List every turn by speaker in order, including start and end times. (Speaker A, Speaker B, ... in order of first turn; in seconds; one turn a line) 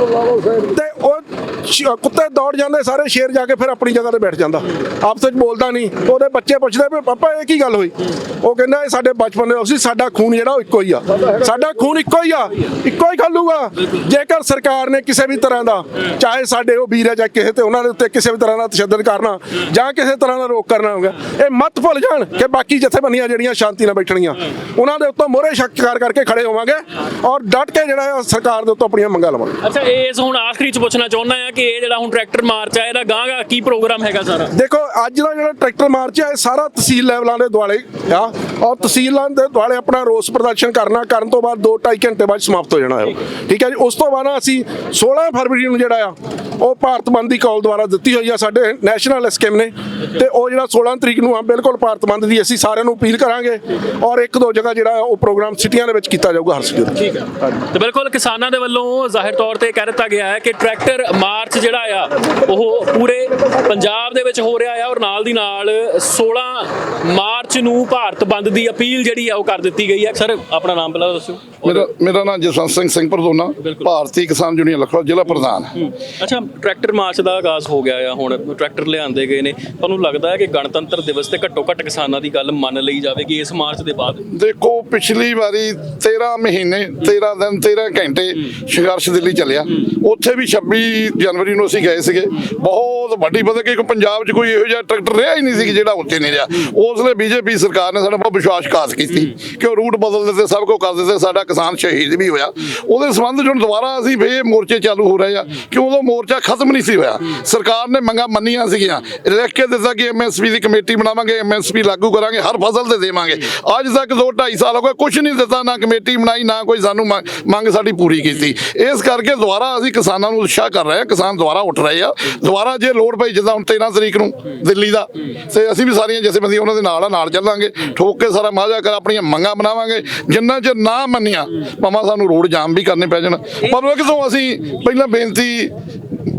Speaker A: 0.5-29.5
Speaker B: 29.6-34.5
Speaker A: 34.5-57.0
Speaker B: 57.7-71.9
Speaker C: 71.6-75.7
Speaker B: 73.6-73.9
Speaker B: 75.8-84.2
Speaker C: 84.3-135.7